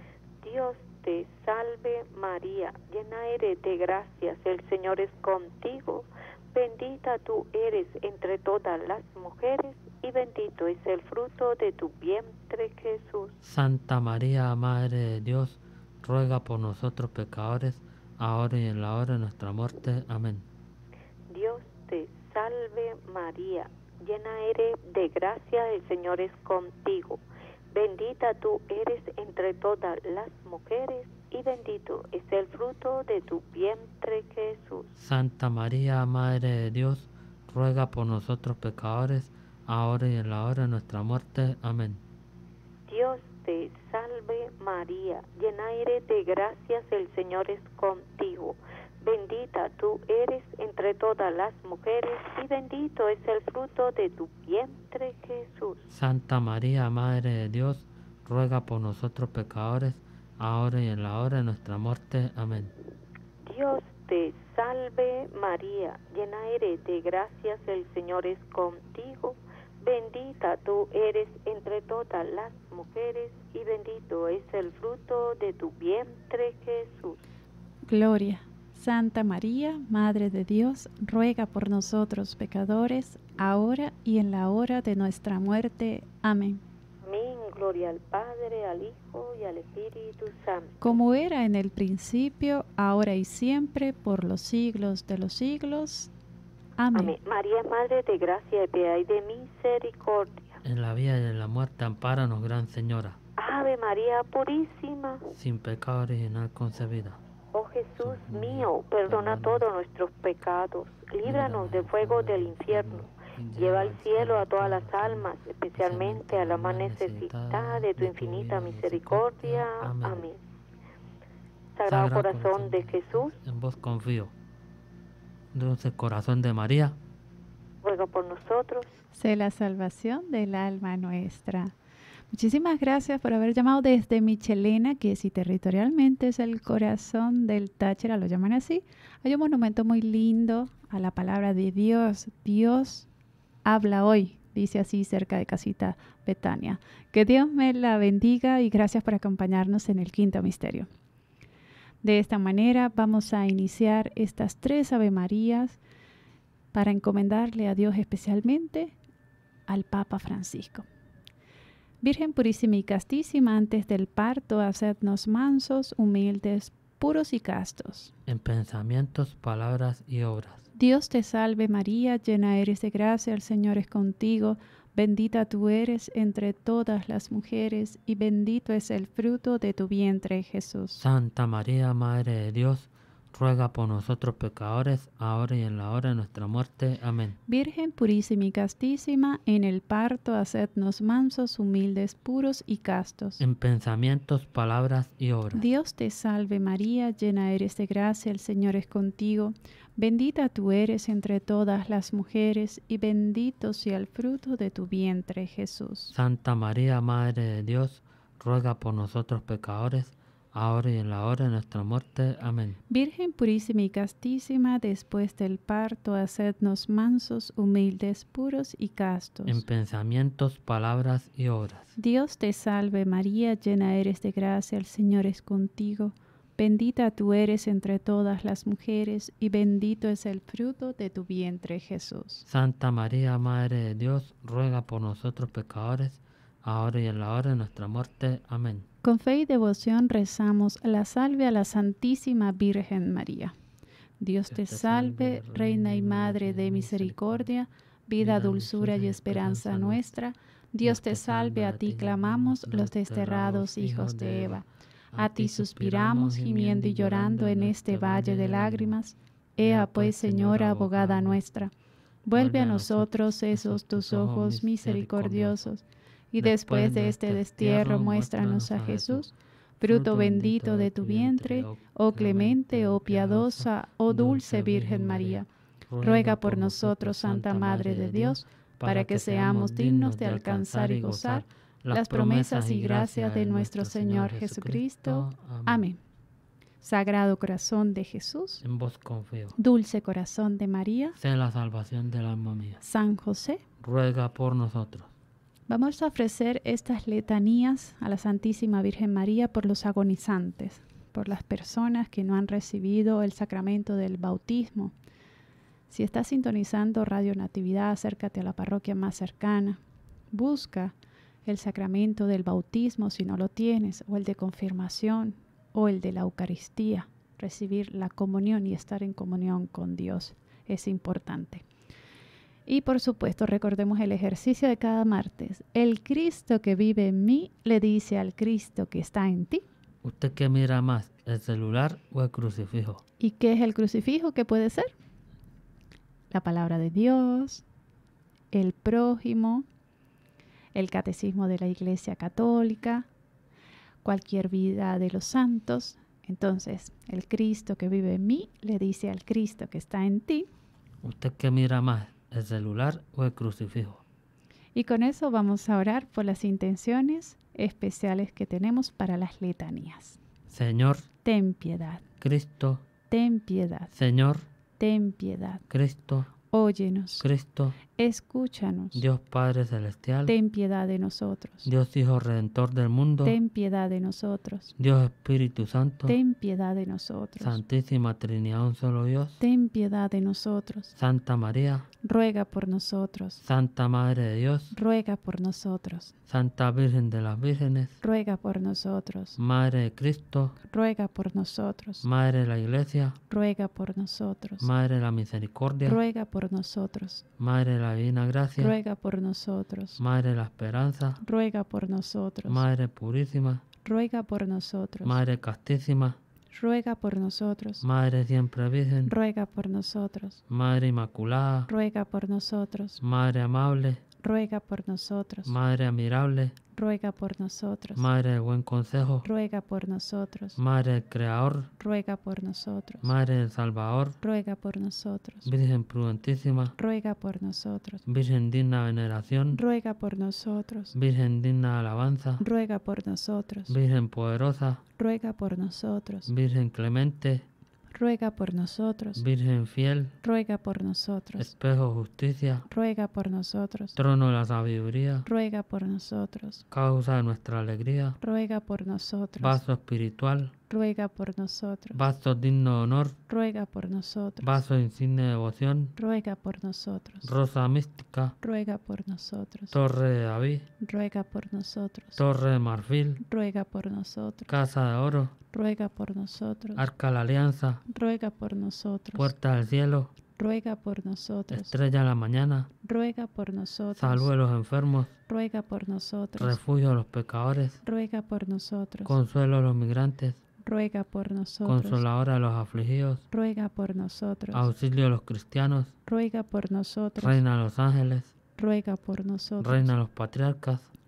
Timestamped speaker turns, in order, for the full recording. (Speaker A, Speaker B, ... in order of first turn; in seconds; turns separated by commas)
Speaker A: 0.4-13.3, Speaker B: 13.4-20.4, Speaker A: 21.3-34.9, Speaker B: 35.0-42.0, Speaker A: 42.9-55.9, Speaker B: 55.9-62.7, Speaker A: 63.4-77.2, Speaker C: 77.9-86.6, Speaker A: 87.0-90.8, Speaker C: 90.8-96.1, Speaker C: 96.8-97.2, Speaker A: 96.9-100.6, Speaker B: 100.6-103.2, Speaker A: 103.4-105.3, Speaker B: 105.3-107.2, Speaker A: 107.5-120.4, Speaker B: 108.0-109.7, Speaker B: 111.2-120.3, Speaker A: 121.7-123.3, Speaker B: 121.8-124.3, Speaker B: 125.5-127.0, Speaker A: 127.8-128.9, Speaker C: 129.1-131.7, Speaker C: 132.3-143.1, Speaker C: 143.6-150.9, Speaker C: 152.0-155.8, Speaker C: 156.7-158.9, Speaker C: 159.7-160.8, Speaker C: 162.0-168.1, Speaker B: 168.2-170.6, Speaker C: 170.7-181.0, Speaker B: 181.0-187.4, Speaker C: 187.5-193.4, Speaker B: 193.4-195.6, Speaker C: 195.5-206.1, Speaker B: 206.1-212.8, Speaker C: 212.9-219.6, Speaker B: 219.4-221.9, Speaker C: 221.9-232.4, Speaker B: 232.5-238.9, Speaker C: 239.0-243.5, Speaker C: 244.2-254.6, Speaker B: 244.5-247.5, Speaker B: 248.2-250.1, Speaker B: 250.8-259.0, Speaker C: 255.2-261.7, Speaker B: 259.6-261.6, Speaker C: 262.2-275.5, Speaker B: 262.3-265.7, Speaker B: 266.4-285.9, Speaker C: 276.0-286.0, Speaker C: 286.8-288.6, Speaker B: 288.6-289.6, Speaker C: 289.6-291.2, Speaker B: 291.1-292.8, Speaker C: 292.8-293.6, Speaker B: 293.8-295.1, Speaker C: 295.7-304.9, Speaker C: 305.9-309.8, Speaker C: 310.3-321.6, Speaker C: 322.7-329.6, Speaker B: 330.0-333.0, Speaker C: 333.2-334.9, Speaker C: 336.3-337.6, Speaker C: 338.5-339.6, Speaker C: 340.7-343.1, Speaker C: 344.0-350.5, Speaker B: 351.0-354.0, Speaker C: 354.7-360.2, Speaker B: 360.5-361.1, Speaker C: 361.2-362.0, Speaker B: 362.2-362.8, Speaker C: 363.1-363.9, Speaker B: 363.9-364.4, Speaker C: 364.8-365.6, Speaker B: 365.7-366.3, Speaker C: 366.5-367.2, Speaker B: 367.2-367.8, Speaker C: 367.9-369.0, Speaker B: 368.9-370.3, Speaker C: 370.2-371.7, Speaker B: 371.6-373.4, Speaker C: 373.2-374.7, Speaker B: 374.8-376.2, Speaker C: 376.1-377.6, Speaker B: 377.4-379.4, Speaker C: 379.4-380.9, Speaker B: 380.9-381.9, Speaker C: 382.0-383.4, Speaker B: 383.4-384.7, Speaker C: 384.7-386.1, Speaker B: 386.3-388.0, Speaker C: 388.0-389.4, Speaker B: 389.4-390.6, Speaker C: 390.6-392.0, Speaker B: 392.0-393.2, Speaker C: 393.3-394.7, Speaker B: 394.6-396.0, Speaker C: 395.8-397.2, Speaker B: 397.4-398.8, Speaker C: 398.6-400.0, Speaker B: 400.0-401.2, Speaker C: 401.2-402.6, Speaker B: 402.4-403.6, Speaker C: 403.8-405.2, Speaker B: 405.0-406.2, Speaker C: 406.5-407.8, Speaker B: 407.8-409.1, Speaker C: 409.0-410.4, Speaker B: 410.5-411.7, Speaker C: 411.7-413.0, Speaker B: 413.0-414.0, Speaker C: 414.2-415.5, Speaker B: 415.4-416.6, Speaker C: 416.7-418.1, Speaker B: 417.9-419.3, Speaker C: 419.2-420.6, Speaker B: 420.6-421.7, Speaker C: 421.8-423.1, Speaker B: 423.0-424.2, Speaker C: 424.2-425.5, Speaker B: 425.4-426.8, Speaker C: 426.8-428.0, Speaker B: 428.1-429.6, Speaker C: 429.5-430.9, Speaker B: 430.9-432.4, Speaker C: 432.4-433.7, Speaker B: 433.7-434.8, Speaker C: 435.0-436.3, Speaker B: 436.3-437.4, Speaker C: 437.9-439.2, Speaker B: 439.1-440.1, Speaker C: 440.2-441.5, Speaker B: 441.4-442.7, Speaker C: 442.7-443.9, Speaker B: 443.9-445.3, Speaker C: 445.2-446.6, Speaker B: 446.7-448.2, Speaker C: 448.2-449.6, Speaker B: 449.4-450.5, Speaker C: 450.7-452.0, Speaker B: 451.9-453.2, Speaker C: 453.3-454.6, Speaker B: 454.4-455.9, Speaker C: 456.0-457.3, Speaker B: 457.2-458.4, Speaker C: 458.4-459.8, Speaker B: 459.7-460.7, Speaker C: 460.8-462.2, Speaker B: 462.1-463.2, Speaker C: 463.2-464.5, Speaker B: 464.5-465.3, Speaker C: 465.5-466.8, Speaker B: 466.8-467.8, Speaker C: 467.9-469.3, Speaker B: 469.1-470.1, Speaker C: 470.4-471.8, Speaker B: 471.5-472.7, Speaker C: 472.8-474.3, Speaker B: 473.9-475.1, Speaker C: 475.3-476.6, Speaker B: 476.4-477.8, Speaker C: 477.8-479.1, Speaker B: 479.0-480.4, Speaker C: 480.6-482.0, Speaker B: 481.6-483.2, Speaker C: 483.3-484.7, Speaker B: 484.5-485.9, Speaker C: 486.1-487.4, Speaker B: 487.2-488.3, Speaker C: 488.6-489.9, Speaker B: 489.6-490.9